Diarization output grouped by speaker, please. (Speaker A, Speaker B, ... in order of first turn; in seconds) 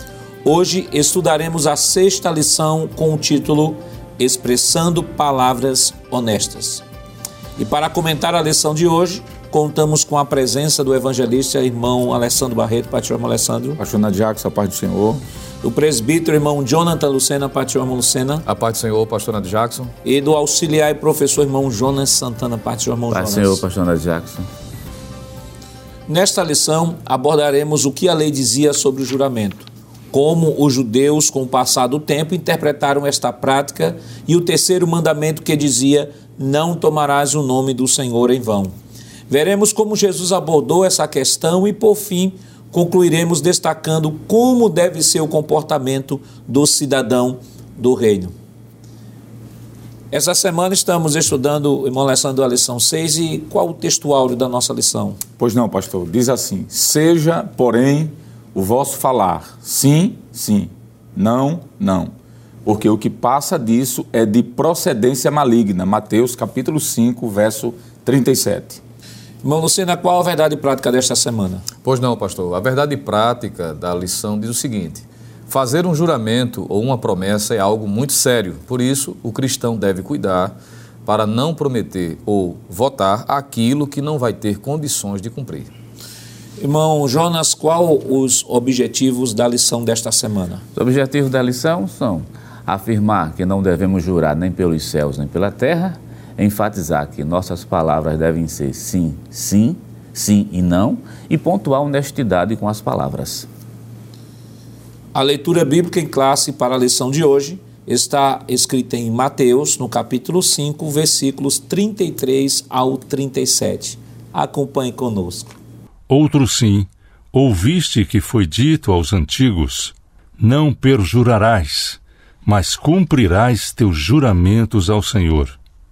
Speaker A: 0.4-6.8, 7.6-13.8, 15.6-18.4, 20.0-23.6, 26.1-38.7, 39.3-48.3, 50.1-55.2, 69.4-71.7, 86.6-90.6, 105.2-115.5
Speaker B: 13.8-15.2, 55.4-62.1, 62.6-68.8
Speaker C: 18.5-19.9, 71.8-85.7
Speaker D: 23.1-24.5, 90.8-103.5
Speaker E: 116.1-125.6